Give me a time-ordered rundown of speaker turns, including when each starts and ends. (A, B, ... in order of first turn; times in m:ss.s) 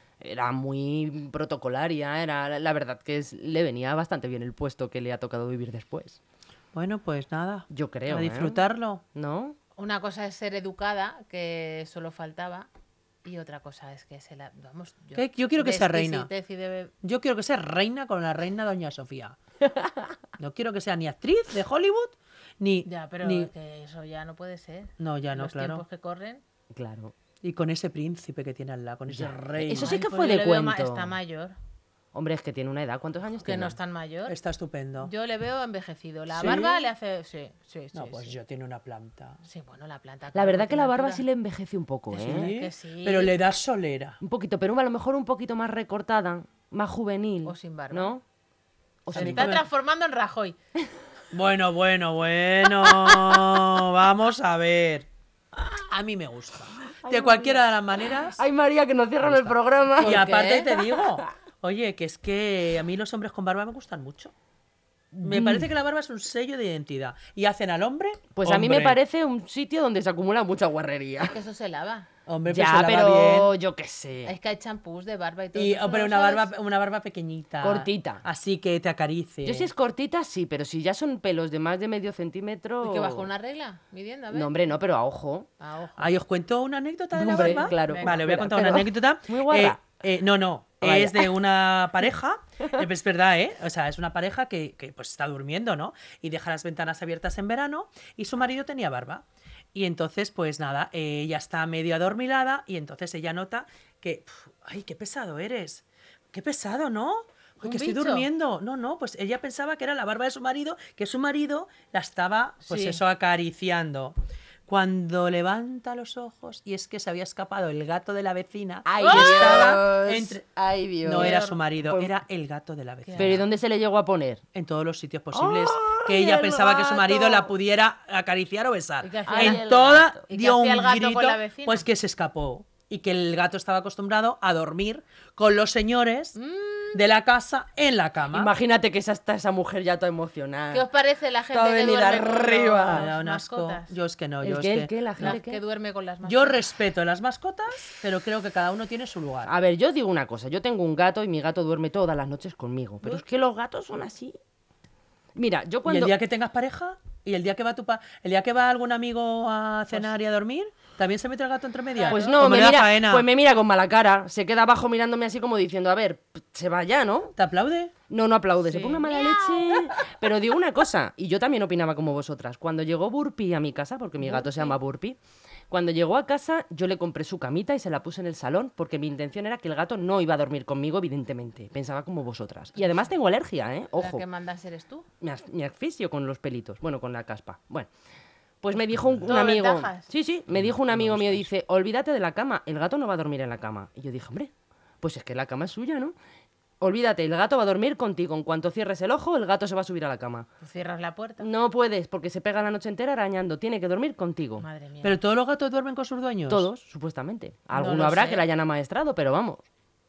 0:00.2-0:06.2 A
0:06.7-0:09.0 B
0:07.7-0:08.6 A
0:09.1-0:09.6 A
0:09.8-0:12.7 C
0:13.2-0:16.9 C
0:15.1-0:16.3 B
0:17.0-0:19.4 B
0:19.7-0:20.1 A
0:20.4-0:23.5 B
0:22.8-0:26.4 C
0:25.0-0:25.8 B
0:26.7-0:27.1 A
0:27.4-0:30.1 B
0:29.1-0:31.1 A
0:29.7-0:31.6 C
0:32.1-0:33.8 A
0:33.4-0:34.3 C
0:34.3-0:35.1 B
0:35.0-0:38.4 C
0:36.3-0:36.9 B
0:37.9-0:39.4 B
0:39.4-0:41.2 C
0:40.3-0:42.5 A
0:42.1-0:43.4 C
0:42.2-0:44.2 B
0:44.2-0:48.2 A
0:47.4-0:48.1 C
0:49.0-0:49.6 A
0:49.1-0:50.6 C
0:49.1-0:49.6 B
0:51.3-0:55.1 B
0:52.6-0:53.6 A
0:55.6-0:58.4 B
0:57.0-0:57.6 A
0:58.3-1:01.2 A
0:59.2-1:04.3 B
1:05.1-1:05.7 A
1:05.2-1:09.0 B
1:08.3-1:11.4 A
1:11.2-1:12.1 C
1:12.3-1:13.5 B
1:12.4-1:14.3 A
1:14.2-1:16.5 C
1:15.5-1:19.7 B
1:17.6-1:18.2 A
1:19.4-1:23.3 A
1:22.8-1:24.5 C
1:24.3-1:25.5 A
1:25.6-1:26.2 C
1:26.0-1:54.2 B
1:27.1-1:29.8 A
1:27.3-1:28.2 C
1:30.8-1:31.3 A
1:47.6-1:48.3 C
1:52.6-1:53.0 C
1:54.7-2:00.4 B
1:58.8-2:02.1 A
1:59.0-1:59.8 C
2:01.0-2:03.5 B
2:01.2-2:01.6 C
2:03.0-2:03.4 C
2:03.2-2:04.4 A
2:04.5-2:16.4 B
2:05.3-2:07.5 A
2:09.0-2:11.8 C
2:09.3-2:10.1 A
2:16.4-2:17.0 C
2:16.9-2:18.5 B
2:18.3-2:20.9 A
2:20.7-2:23.9 C
2:21.5-2:23.0 A
2:22.8-2:25.4 B
2:24.4-2:25.6 A
2:25.2-2:26.6 C
2:26.2-2:29.5 B
2:29.4-2:34.3 A
2:35.4-2:36.1 A
2:35.8-2:43.2 B
2:41.9-2:42.4 C
2:42.1-2:47.3 A
2:47.4-2:47.9 B
2:48.1-2:55.2 A
2:48.7-2:49.9 C
2:54.2-2:54.7 C
2:55.7-3:04.2 A
3:03.9-3:05.1 C
3:05.2-3:07.9 A
3:08.6-3:16.1 A
3:09.0-3:09.3 B
3:09.3-3:10.1 C
3:10.5-3:11.4 B
3:16.8-3:20.5 A
3:20.6-3:21.5 C
3:21.4-3:24.6 A
3:24.6-3:25.2 C
3:25.0-3:26.7 B
3:26.5-3:29.6 A
3:27.7-3:28.4 C